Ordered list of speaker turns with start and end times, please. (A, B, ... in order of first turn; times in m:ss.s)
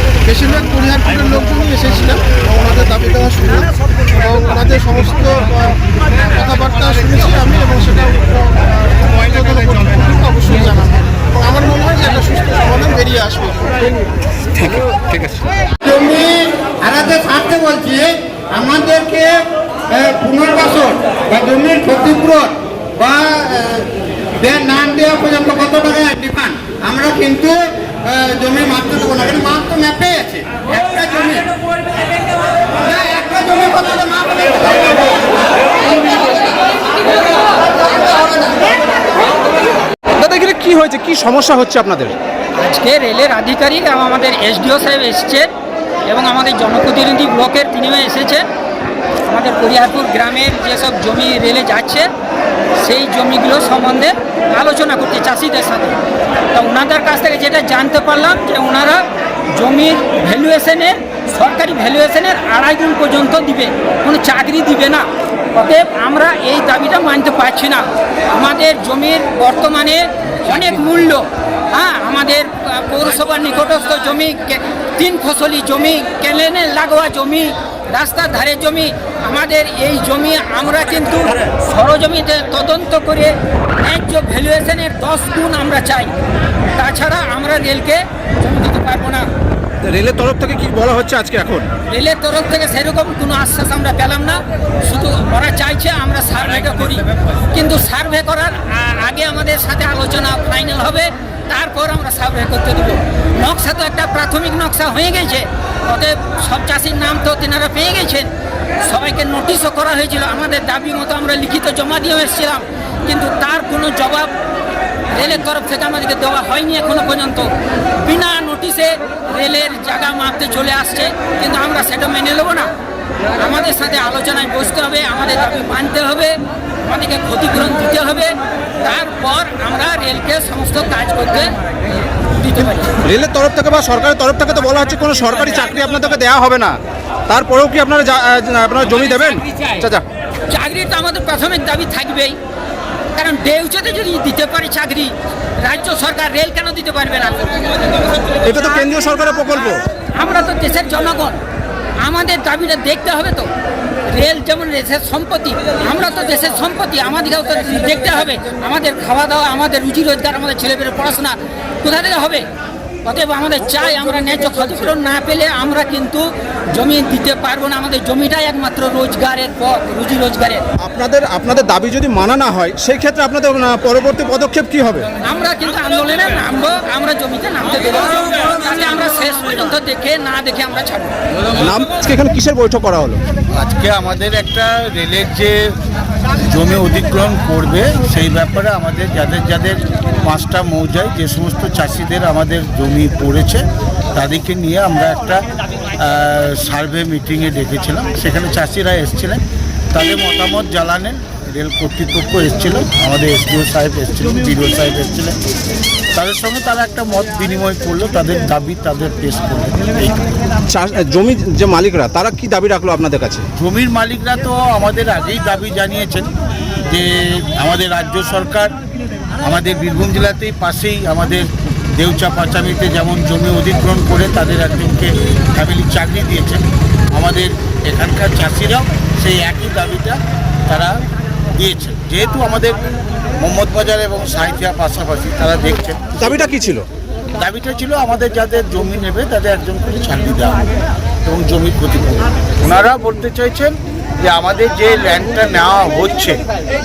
0:00.2-0:13.9 A
0:14.6-0:15.4 B
0:15.8-0:23.9 C
0:24.4-0:31.5 C
0:32.8-0:36.5 C
0:37.8-0:39.1 C
0:40.2-0:42.1 B
0:42.6-0:45.5 D
0:46.1-0:48.5 D
0:49.3-0:52.1 D
0:52.8-0:56.0 D
0:56.5-1:26.2 D
1:26.8-1:29.3 D
1:29.9-1:31.7 B
1:31.9-1:48.3 D
1:48.8-1:54.3 D
1:55.1-1:57.5 D
1:58.0-2:02.7 D
2:03.4-2:11.6 D
2:12.4-2:13.0 D
2:13.1-2:16.8 B
2:17.3-2:20.0 B
2:20.5-2:22.4 D
2:23.2-2:27.9 D
2:28.4-2:29.8 B
2:30.2-2:31.4 D
2:32.0-2:33.5 D
2:34.1-2:42.4 D
2:43.0-2:50.6 D
2:50.8-2:55.1 B
2:55.2-3:01.2 D
3:01.6-3:03.2 B
3:03.5-3:05.7 E
3:06.4-3:15.4 E
3:16.0-3:19.4 E
3:19.9-3:25.4 E
3:26.2-3:30.2 E
3:30.7-3:33.4 B
3:33.6-3:36.3 E
3:36.9-3:38.7 E
3:39.4-3:46.6 E
3:47.2-3:51.0 E
3:51.6-3:52.8 E
3:53.4-3:56.3 E
3:56.2-3:56.8 B
3:57.4-4:00.7 E
4:01.2-4:06.4 E